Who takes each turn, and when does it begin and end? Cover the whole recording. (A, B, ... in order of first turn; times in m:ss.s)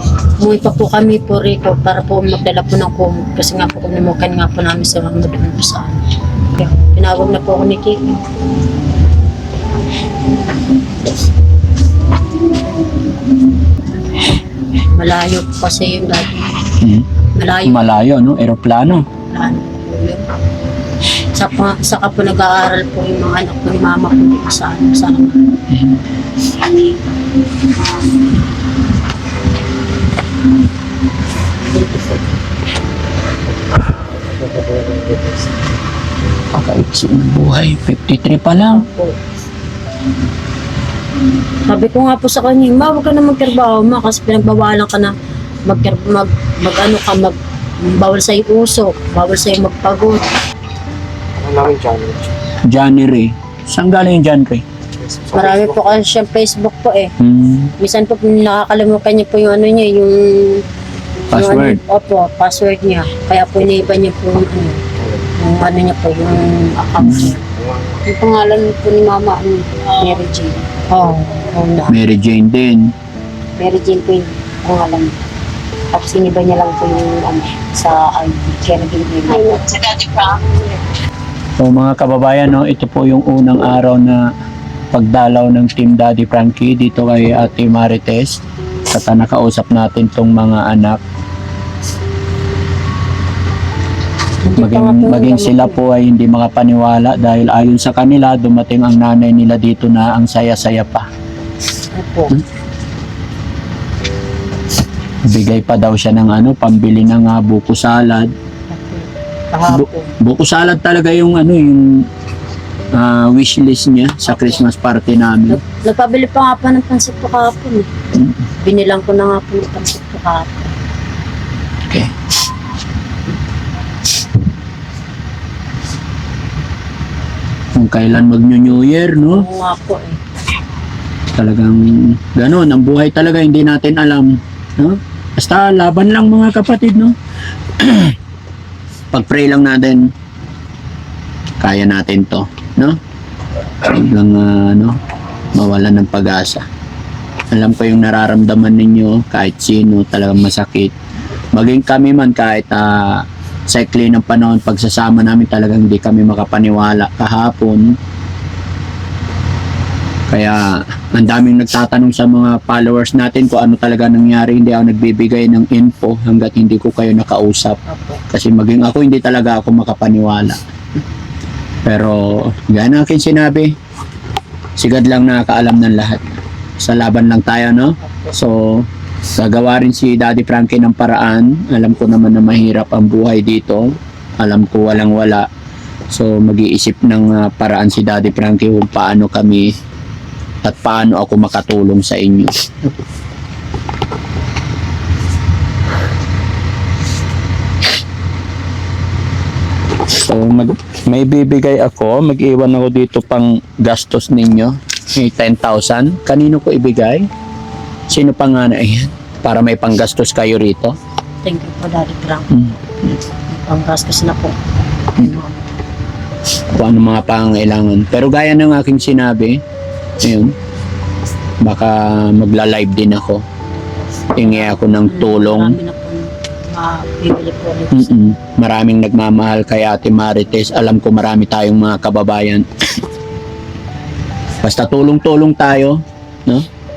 0:00.4-0:08.2 A
0:14.9-0:16.6 A
0:16.8-0:17.1 B
0:17.4-0:17.8 A
0:17.6-0:19.0 B
0:19.3-0:20.2 A
0:21.4-0:25.4 A
0:25.7-0:26.0 B
0:34.5-0:35.2 C
0:36.5-0:38.8 B
0:38.7-0:39.1 A
0:41.6-0:45.1 A
0:45.6-0:50.2 A
0:51.4-0:52.3 C
0:52.7-0:54.6 B
0:55.1-0:56.0 C
0:55.3-0:57.1 A
0:57.2-0:57.7 B
0:57.8-1:00.6 A
1:01.3-1:01.8 B
1:01.3-1:04.8 A
1:05.4-1:07.4 A
1:07.0-1:07.3 B
1:08.0-1:11.9 D
1:11.9-1:12.9 B
1:13.6-1:15.2 D
1:15.9-1:20.8 D
1:21.6-1:24.2 B
1:24.9-1:28.4 B
1:28.9-1:31.0 B
1:34.4-1:35.8 A
1:34.6-1:41.1 B
1:41.9-1:42.4 A
1:45.2-1:48.3 B
1:48.7-1:50.1 A
1:49.7-1:51.8 B
1:52.9-1:55.6 B
1:54.2-1:54.6 A
1:55.5-1:57.9 A
1:58.1-1:58.4 B
1:58.6-2:00.7 A
2:07.8-2:09.4 B
2:09.3-2:10.2 A
2:11.3-2:17.2 B
2:17.8-2:18.2 B
2:19.1-2:20.1 B
2:21.6-2:23.0 B
2:23.8-2:25.0 B
2:25.5-2:26.6 B
2:27.5-2:30.9 B
2:31.5-2:37.9 B
2:40.3-2:50.6 B
2:47.9-2:48.2 A
2:51.8-2:53.7 B
2:54.8-3:03.8 B
2:58.0-2:58.3 A
3:04.4-3:05.5 B
3:06.1-3:09.7 B
3:10.6-3:13.0 B
3:20.1-3:27.3 B
3:28.1-3:30.9 B
3:31.4-3:32.5 A
3:32.5-3:33.2 B
3:33.5-3:34.6 A
3:35.1-3:35.6 A
3:36.7-3:39.6 B
3:40.2-3:40.5 B
3:41.6-3:43.4 B
3:44.4-3:45.8 B
3:44.4-3:48.1 A
3:47.9-3:52.6 B
3:54.6-3:56.7 B